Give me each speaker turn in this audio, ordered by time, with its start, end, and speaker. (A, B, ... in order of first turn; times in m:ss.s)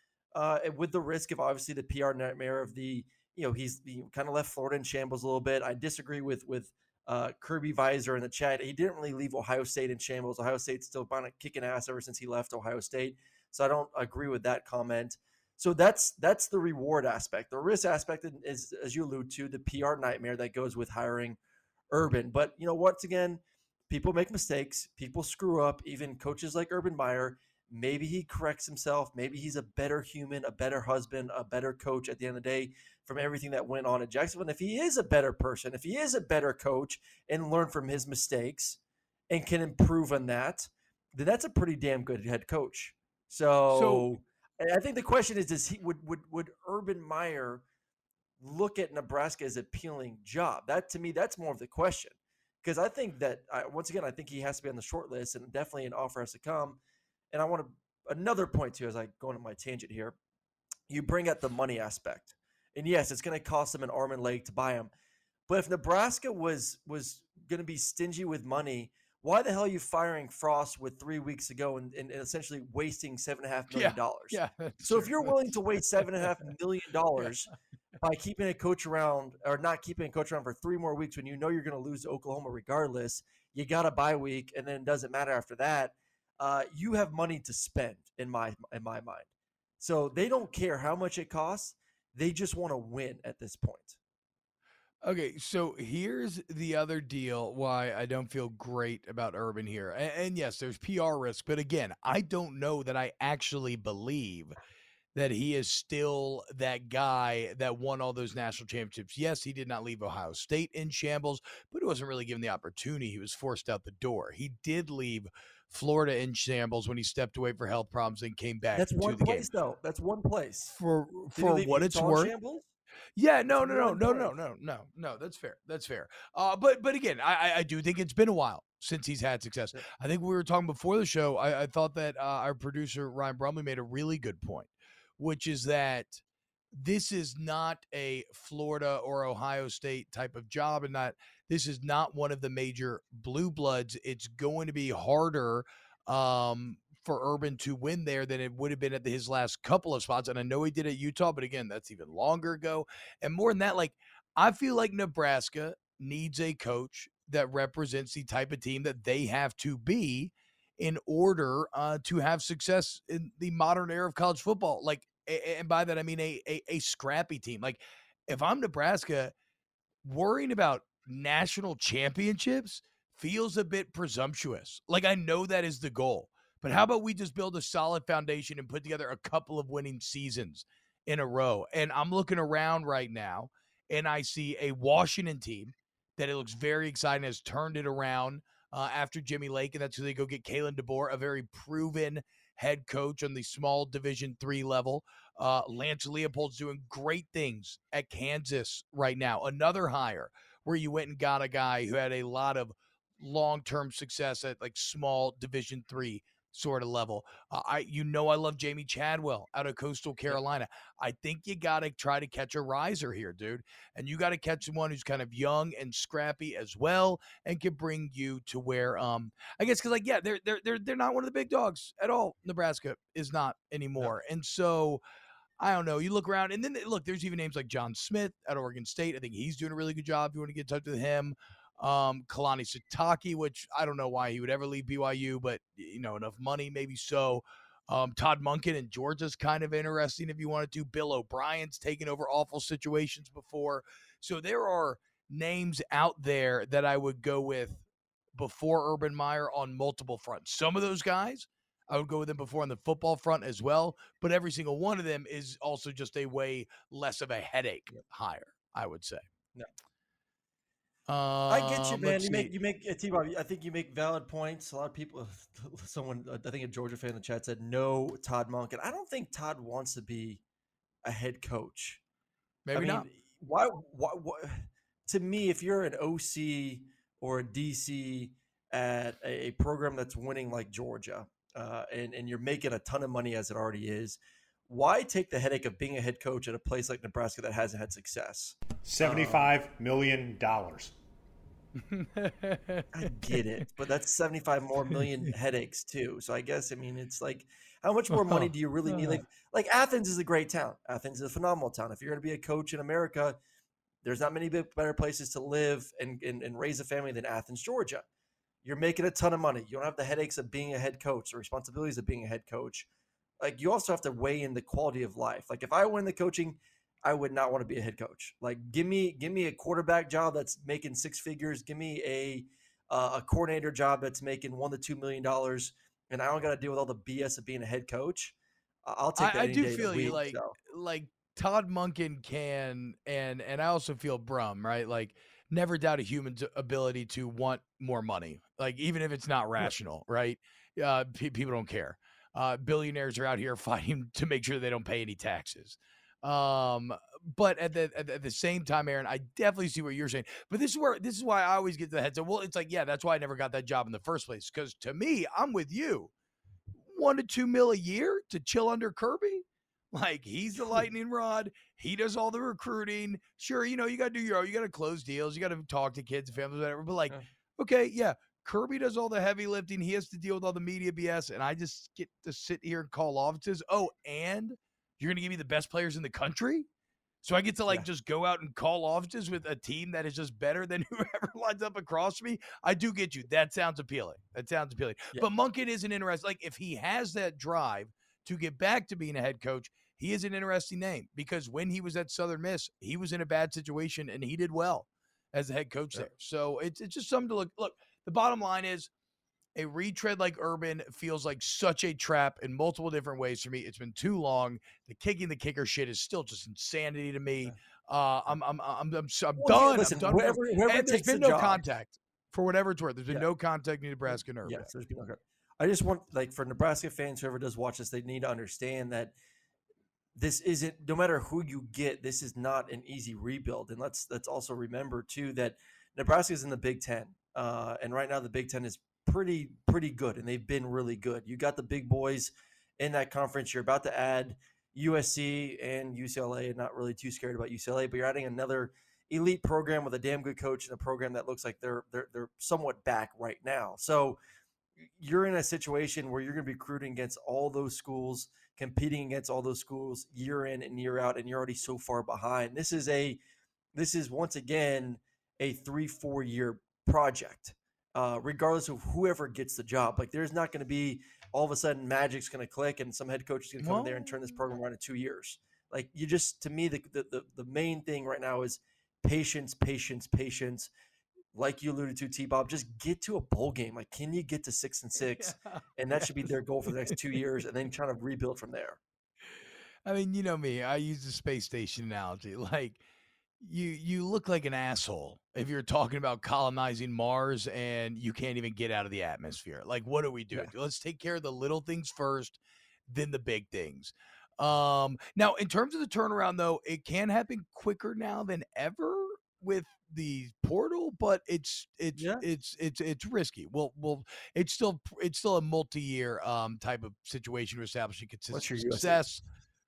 0:00.3-0:21.4 A
0:21.9-0:38.8 A
0:39.3-0:47.6 A
0:43.7-0:44.1 B
0:48.4-0:56.8 A
0:57.3-1:00.2 A
1:00.9-1:04.9 A
1:05.5-1:29.3 A
1:13.7-1:16.5 B
1:29.8-1:34.0 A
1:35.0-1:44.5 B
1:45.1-1:59.5 B
1:58.8-2:00.8 A
2:00.8-2:02.3 B
2:01.3-2:02.7 A
2:03.2-2:16.2 B
2:03.5-2:04.3 A
2:16.7-2:49.3 B
2:50.0-3:45.0 B
3:45.6-4:07.8 B
4:08.4-4:19.2 B
4:21.1-4:22.5 B
4:21.5-4:30.4 A
4:31.0-4:32.0 A
4:32.6-4:33.1 B
4:32.7-4:49.5 A
4:48.8-4:50.9 C
4:51.8-4:53.6 B
4:52.9-5:03.4 A
4:58.1-4:59.2 B
5:04.0-5:08.1 A
5:08.6-5:12.9 A
5:13.4-5:28.4 A
5:28.9-5:30.6 A
5:29.2-5:56.1 B
5:56.8-6:16.7 B
6:17.2-6:38.9 B
6:39.6-6:54.7 B
6:49.4-6:51.6 A
6:54.1-6:59.1 A
7:00.2-7:24.2 A
7:25.0-7:33.2 A
7:33.8-7:50.7 A
7:43.6-7:44.2 B
7:51.3-7:58.8 A
7:55.0-7:57.0 B
7:59.9-8:02.8 B
8:03.4-8:29.2 B
8:22.0-8:22.2 A
8:28.3-8:29.0 A